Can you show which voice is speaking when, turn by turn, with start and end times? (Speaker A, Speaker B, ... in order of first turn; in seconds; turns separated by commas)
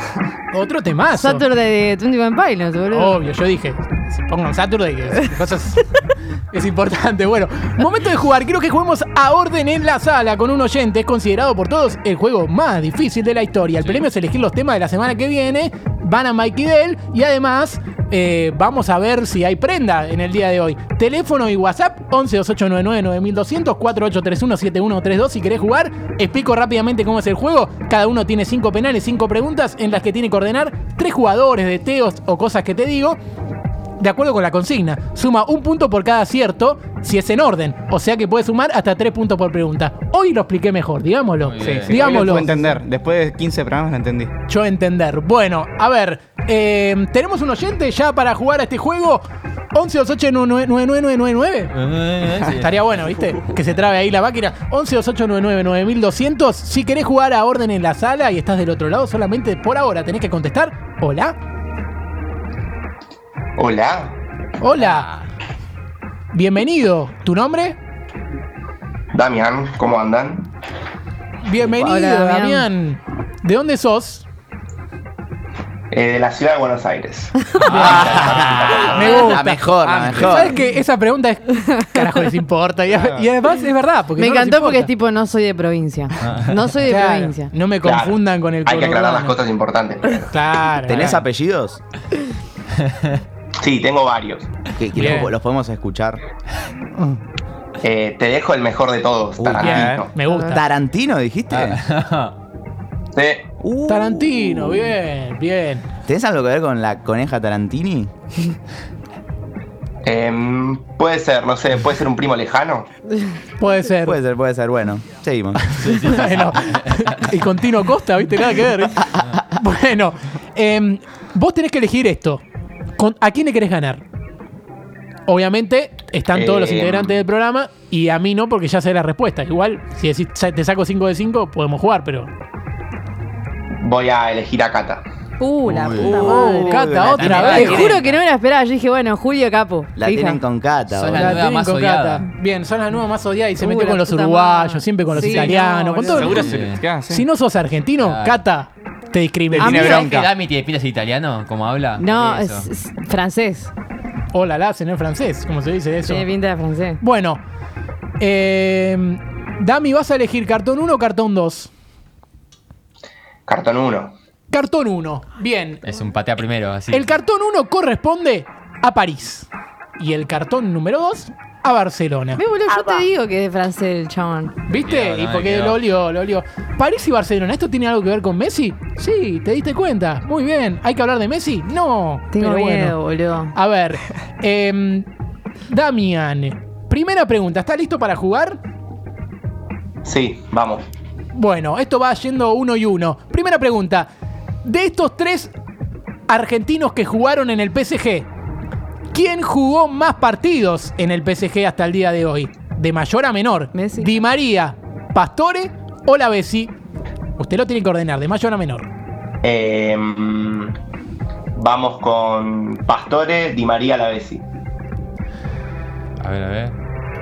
Speaker A: 0.5-1.4, Speaker B: 1.1-3.2, Speaker A: 2.9-5.9, Speaker A: 6.5-33.2, Speaker A: 34.0-42.6, Speaker C: 41.4-42.1, Speaker D: 41.6-44.3, Speaker A: 44.5-51.7, Speaker C: 51.7-52.8, Speaker A: 52.4-61.4, Speaker E: 63.5-64.2, Speaker A: 64.6-65.1, Speaker C: 64.8-65.1, Speaker A: 66.3-67.8, Speaker E: 69.1-70.5, Speaker A: 71.4-74.2, Speaker B: 71.7-72.7, Speaker E: 75.9-79.1, Speaker B: 77.4-77.7, Speaker C: 77.6-78.6, Speaker F: 77.7-80.5, Speaker A: 77.9-79.6, Speaker D: 79.8-80.5, Speaker A: 80.2-84.9, Speaker B: 81.8-82.2, Speaker B: 84.2-87.5, Speaker C: 86.2-86.7, Speaker A: 86.9-89.4, Speaker E: 87.8-90.3, Speaker A: 90.3-91.2, Speaker F: 90.9-91.8, Speaker C: 92.9-93.2, Speaker E: 93.6-94.5, Speaker F: 94.8-96.2, Speaker A: 94.9-95.3, Speaker A: 96.9-97.2, Speaker E: 97.8-100.1, Speaker F: 99.4-100.0, Speaker A: 99.6-100.6, Speaker D: 99.7-100.0, Speaker F: 100.5-101.8, Speaker C: 101.5-102.3, Speaker E: 103.1-103.5, Speaker F: 103.6-104.9, Speaker A: 103.9-105.8, Speaker F: 106.0-108.1, Speaker E: 110.0-112.9, Speaker A: 113.6-114.2, Speaker F: 114.0-115.9, Speaker A: 115.6-122.4, Speaker C: 115.8-117.2, Speaker A: 123.0-124.0, Speaker A: 125.3-132.3, Speaker E: 126.3-127.2, Speaker E: 133.7-135.0, Speaker B: 135.4-136.9, Speaker C: 135.7-136.3, Speaker F: 135.9-137.8, Speaker D: 136.0-137.9, Speaker A: 136.3-138.0, Speaker C: 137.1-138.2, Speaker B: 137.7-140.4, Speaker F: 139.9-141.4, Speaker C: 140.9-142.2, Speaker A: 141.1-146.6, Speaker B: 143.6-146.3, Speaker D: 146.1-147.2, Speaker C: 146.2-146.8, Speaker A: 147.1-150.0, Speaker C: 148.0-148.4, Speaker D: 149.5-150.3, Speaker B: 149.6-150.2, Speaker C: 149.8-152.7, Speaker B: 152.0-153.7, Speaker A: 154.3-156.2, Speaker B: 156.0-157.0, Speaker A: 157.0-157.4, Speaker A: 158.2-161.7, Speaker E: 163.5-164.1, Speaker A: 164.5-165.8, Speaker C: 165.8-167.1, Speaker A: 166.9-172.4, Speaker B: 172.4-174.6, Speaker A: 174.7-183.0, Speaker C: 174.7-175.8, Speaker B: 182.3-183.6, Speaker A: 183.5-185.1, Speaker A: 185.7-188.6, Speaker E: 190.0-190.8, Speaker A: 191.3-194.1, Speaker A: 194.6-195.5, Speaker A: 196.3-198.3, Speaker A: 199.1-206.7, Speaker B: 203.7-204.1, Speaker A: 207.4-208.9, Speaker E: 209.4-210.8, Speaker E: 211.5-214.4, Speaker C: 216.2-216.7